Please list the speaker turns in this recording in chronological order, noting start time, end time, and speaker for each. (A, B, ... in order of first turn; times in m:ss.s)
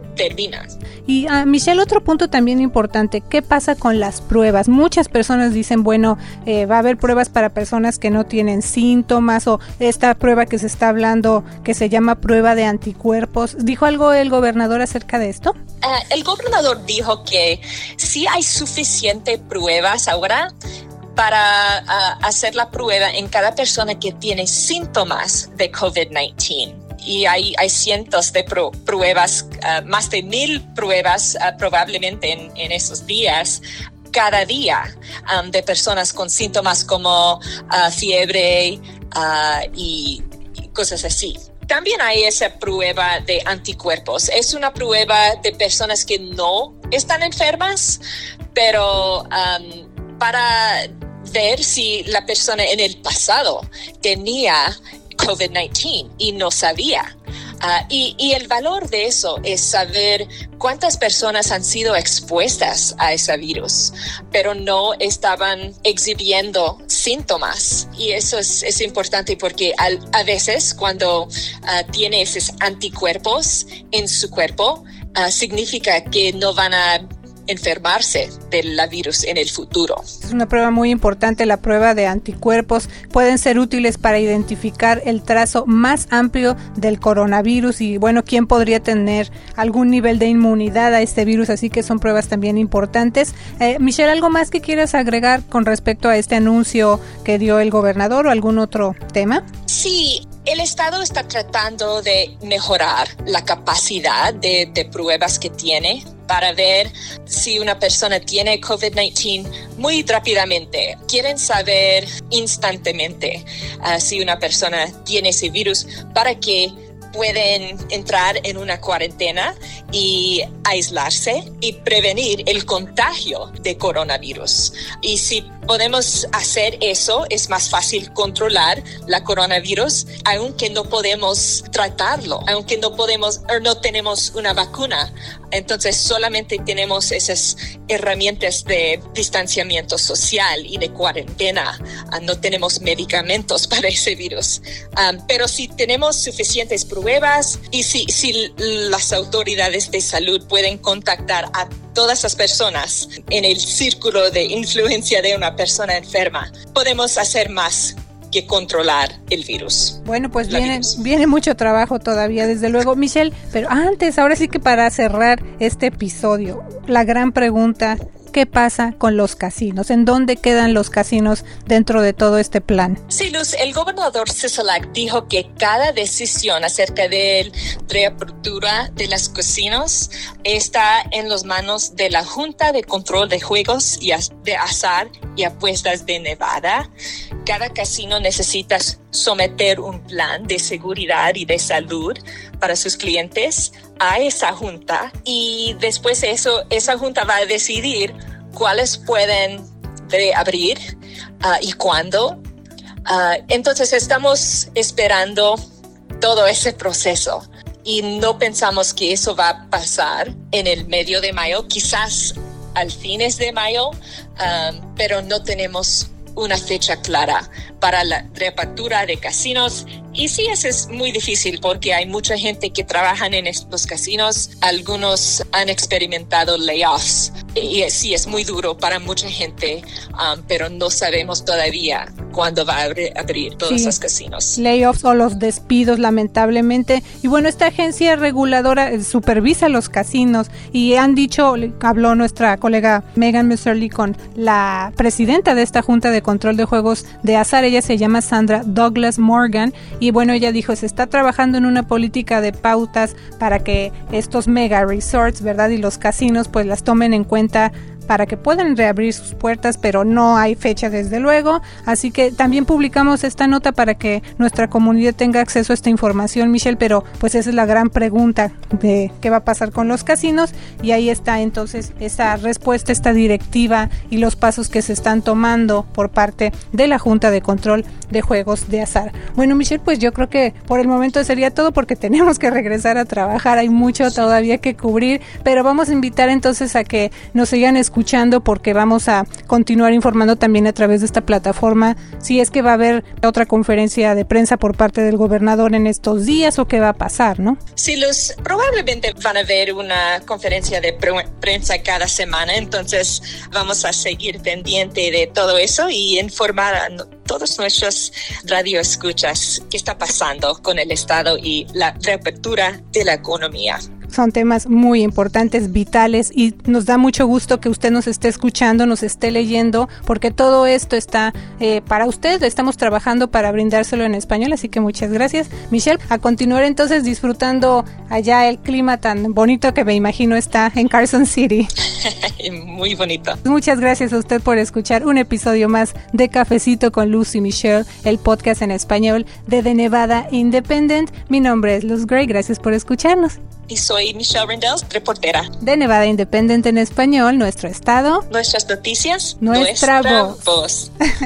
0:00.2-0:00.7 A
0:01.1-0:15.6 B
0:15.8-0:20.5 A
0:21.2-0:48.0 A
0:48.5-1:20.0 A
1:20.2-1:39.4 B
1:39.7-2:40.9 A
2:40.0-2:53.0 B
2:53.1-3:06.9 A
3:07.4-3:20.8 A
3:21.4-3:22.4 A
3:23.0-3:25.6 A
3:26.2-3:54.6 A
3:53.7-3:54.0 B
3:54.6-4:57.6 B
4:57.8-5:13.8 A
5:14.1-5:31.7 B
5:32.0-5:33.4 A
5:33.4-5:43.4 B
5:43.7-5:45.5 A
5:45.6-5:48.3 B
5:48.3-5:50.9 A
5:49.4-5:50.4 B